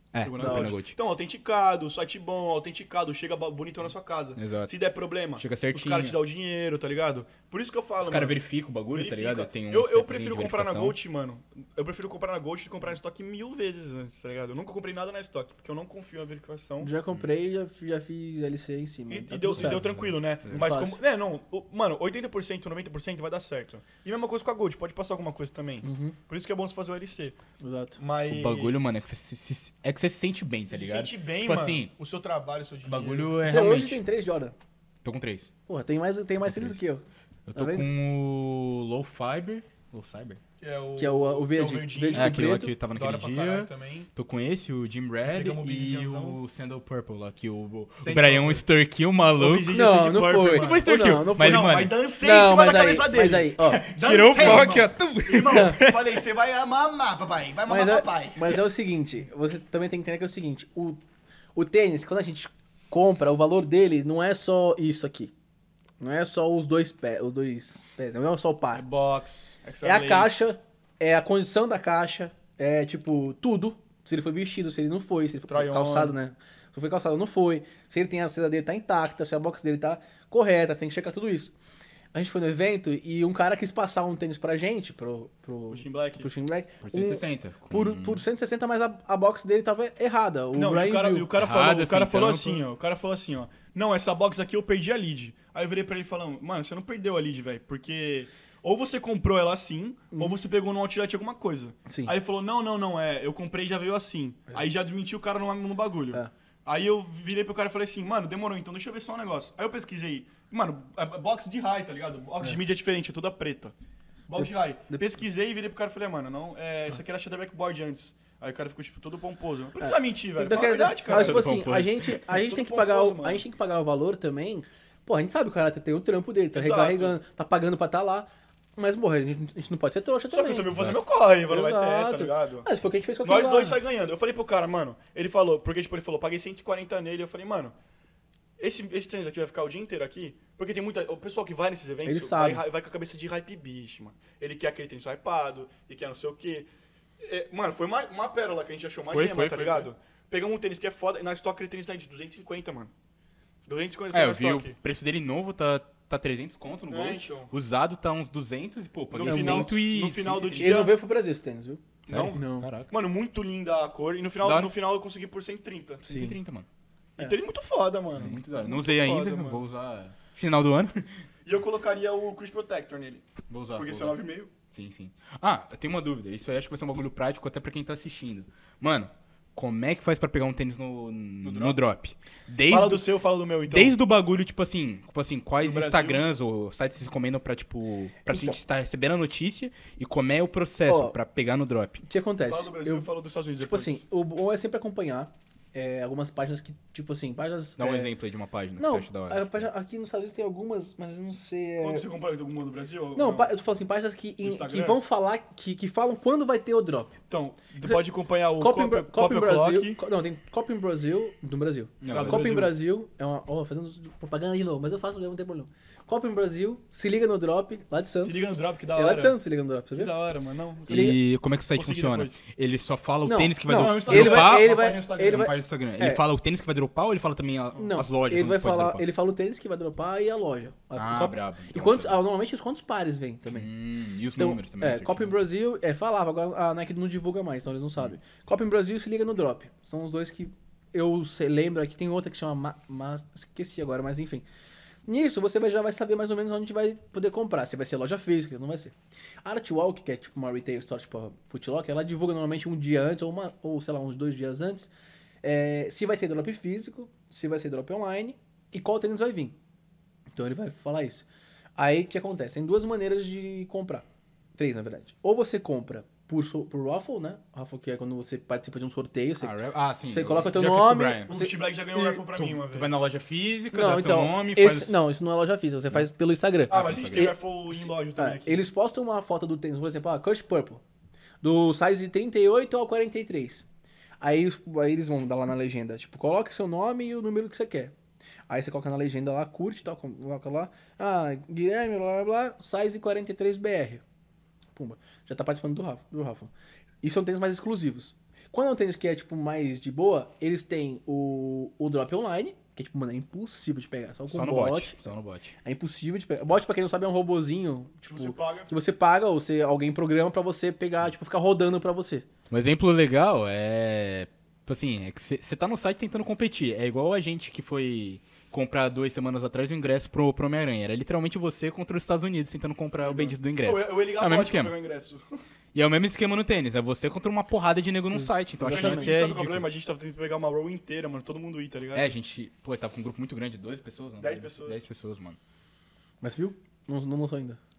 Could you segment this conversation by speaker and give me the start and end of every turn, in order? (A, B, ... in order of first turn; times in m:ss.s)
0:00.1-0:00.9 A
0:00.2-0:16.9 B
0:00.4-0:00.7 C
0:04.4-0:04.7 A
0:05.4-0:06.2 A
0:08.0-0:11.0 A
0:16.8-0:19.9 C
0:19.1-0:27.4 B
0:19.6-0:20.6 A
0:20.5-0:21.0 C
0:25.8-0:26.1 C
0:27.6-0:28.0 C
0:28.0-0:28.9 B
0:28.3-0:31.9 A
0:30.7-0:33.4 B
0:32.8-0:34.0 A
0:33.4-0:34.5 C
0:35.0-0:35.5 A
0:35.7-0:37.0 C
0:36.4-0:36.8 A
0:37.5-0:40.4 A
0:37.5-0:37.9 C
0:40.6-0:44.1 B
0:41.0-0:42.7 C
0:42.1-0:49.8 A
0:45.2-0:46.4 B
0:48.0-0:48.6 B
0:49.3-0:58.6 B
0:49.7-0:54.8 C
0:50.4-0:51.9 A
0:53.6-0:56.2 A
0:55.4-0:55.8 C
0:57.7-1:01.0 C
1:01.5-1:05.3 C
1:06.0-1:08.8 C
1:08.7-1:10.4 B
1:09.8-1:21.5 C
1:15.5-1:16.1 B
1:22.1-1:31.3 C
1:25.7-1:26.3 B
1:26.8-1:28.2 A
1:30.5-1:53.7 B
1:31.3-1:32.6 A
1:41.9-1:42.1 C
1:54.3-2:01.6 B
1:54.4-1:55.2 C
1:59.8-2:10.7 C
2:01.1-2:02.2 A
2:02.2-2:03.4 B
2:06.5-2:07.2 B
2:10.3-2:12.7 B
2:10.7-2:11.0 A
2:11.5-2:13.8 C
2:13.2-2:17.7 B
2:18.6-2:26.7 B
2:22.0-2:22.6 C
2:27.2-2:32.9 B
2:29.1-2:29.9 A
2:33.6-2:34.8 B
2:34.1-2:40.9 A
2:36.9-2:37.5 B
2:39.1-2:41.0 B
2:39.2-2:39.7 C
2:40.6-2:42.7 C
2:42.1-2:42.9 A
2:42.1-2:46.0 B
2:44.4-2:44.7 A
2:46.0-2:46.6 A
2:46.0-2:46.4 C
2:47.2-2:49.6 B
2:48.1-2:51.2 A
2:51.4-2:54.5 B
2:53.5-3:03.0 A
3:01.4-3:01.8 B
3:02.7-3:03.9 B
3:03.7-3:12.0 A
3:05.6-3:06.2 B
3:08.3-3:08.6 C
3:10.9-3:11.1 C
3:12.0-3:13.1 C
3:12.4-3:14.0 B
3:13.6-3:18.1 C
3:17.8-3:19.7 A
3:18.8-3:22.0 C
3:21.8-3:23.5 B
3:23.1-3:27.2 C
3:24.4-3:25.0 B
3:27.3-3:30.0 B
3:28.6-3:40.1 C
3:32.0-3:32.5 A
3:32.1-3:32.7 B
3:38.2-3:39.4 B
3:39.9-3:42.4 B
3:40.9-3:41.2 C
3:40.9-3:49.0 A
3:43.2-3:46.2 C
3:43.7-3:45.5 B
3:47.8-3:53.7 C
3:50.9-3:52.2 A
3:53.5-3:55.3 A
3:54.4-4:04.4 C
4:05.0-4:14.9 C
4:15.4-4:19.6 C
4:20.3-4:24.0 C
4:24.6-4:29.6 C
4:29.4-4:31.3 A
4:30.1-4:32.2 C
4:31.3-4:32.9 B
4:32.3-4:35.0 A
4:33.7-4:40.8 C
4:36.7-4:37.3 A
4:36.7-4:38.6 B
4:41.4-4:43.6 C
4:44.2-4:47.9 C
4:48.5-4:54.0 C
4:54.7-4:56.5 C
4:57.0-5:05.0 C
5:04.3-5:05.6 A
5:05.6-5:12.2 C
5:08.1-5:08.7 B
5:12.5-5:24.7 A
5:23.0-5:25.4 B
5:25.7-5:29.7 A
5:28.1-5:29.2 C
5:28.6-5:32.1 B
5:31.9-5:35.4 A
5:34.2-5:34.8 B
5:36.2-5:37.6 C